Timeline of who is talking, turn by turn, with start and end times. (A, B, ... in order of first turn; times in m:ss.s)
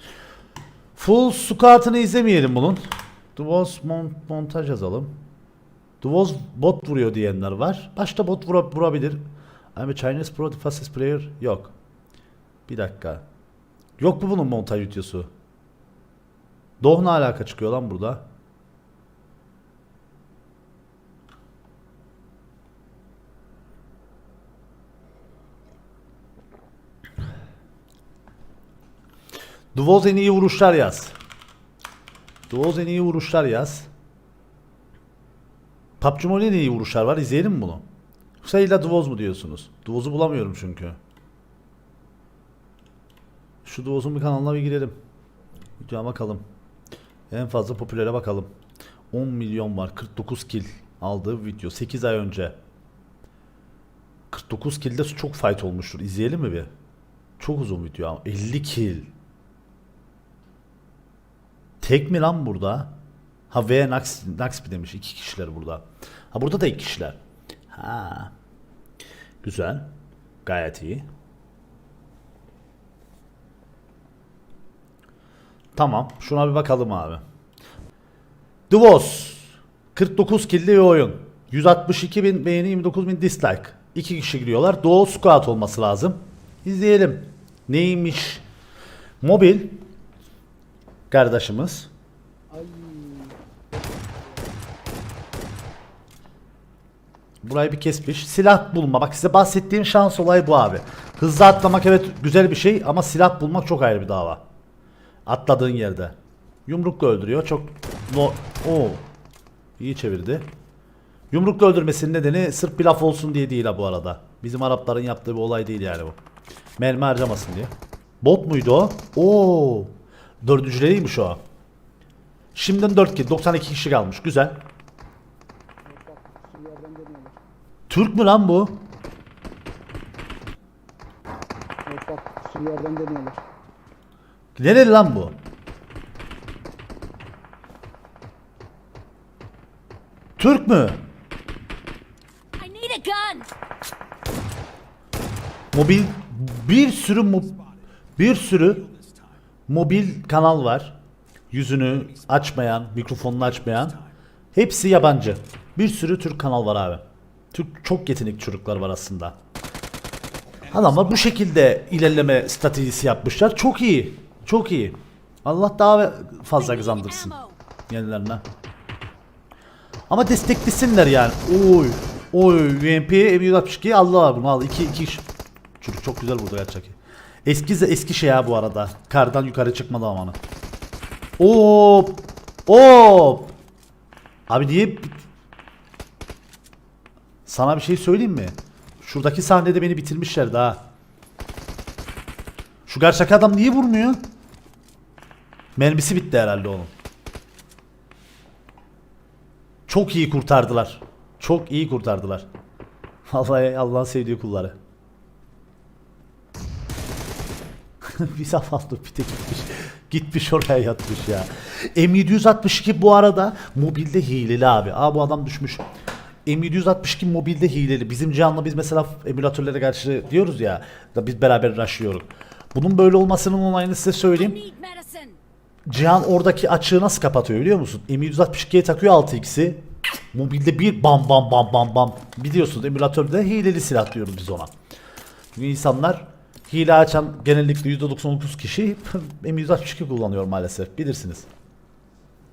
0:01.0-0:02.8 A
0:03.4-0:05.1 A
0:06.0-0:09.2 A
0:09.8-0:11.7 A
0:12.7-0:13.2 A
0:14.0-0:15.3 A
0:16.8-0:18.2 A
0:29.7-0:31.1 A
0:32.5-0:33.9 A
0:36.0-0:37.8 A
0:38.4-0:41.0 A
0:43.6-0:45.0 A
0:45.8-0:46.4 A
0:47.3-0:48.5 A
0:49.1-0:52.6 A
0:54.3-0:56.7 A
0:57.4-0:59.1 A
1:01.8-1:03.0 A
1:03.5-1:07.2 A
1:07.7-1:08.3 A
1:09.4-1:09.9 A
1:10.4-1:11.1 A
1:15.8-1:17.2 A
1:18.7-1:28.4 A
1:29.2-1:29.9 A
1:31.1-1:31.9 A
1:32.5-1:34.6 B
1:37.4-1:44.4 A
1:45.3-1:49.1 A
1:49.8-1:50.5 A
1:51.3-1:56.2 A
1:56.8-2:01.4 A
2:02.6-2:04.6 A
2:05.8-2:07.4 B
2:07.9-2:08.8 A
2:11.9-2:13.4 B
2:14.6-2:15.4 A
2:20.4-2:21.0 A
2:22.6-2:23.5 C
2:25.7-2:27.6 A
2:28.2-2:28.9 A
2:29.7-2:31.0 A
2:31.5-2:34.0 A
2:34.5-2:37.0 A
2:37.5-2:39.4 A
2:40.7-2:47.4 A
2:46.6-2:47.6 C
2:47.9-2:48.4 A
2:50.1-2:55.2 A
2:55.8-3:00.4 A
3:01.4-3:03.6 A
3:04.5-3:05.2 A
3:07.5-3:10.8 A
3:12.9-3:14.2 A
3:15.8-3:16.9 A
3:19.9-3:22.5 A
3:23.3-3:24.7 A
3:28.1-3:35.8 A
3:36.5-3:44.6 A
3:44.3-3:45.4 C
3:45.9-3:49.8 A
3:50.3-3:54.7 A
3:55.5-4:01.5 A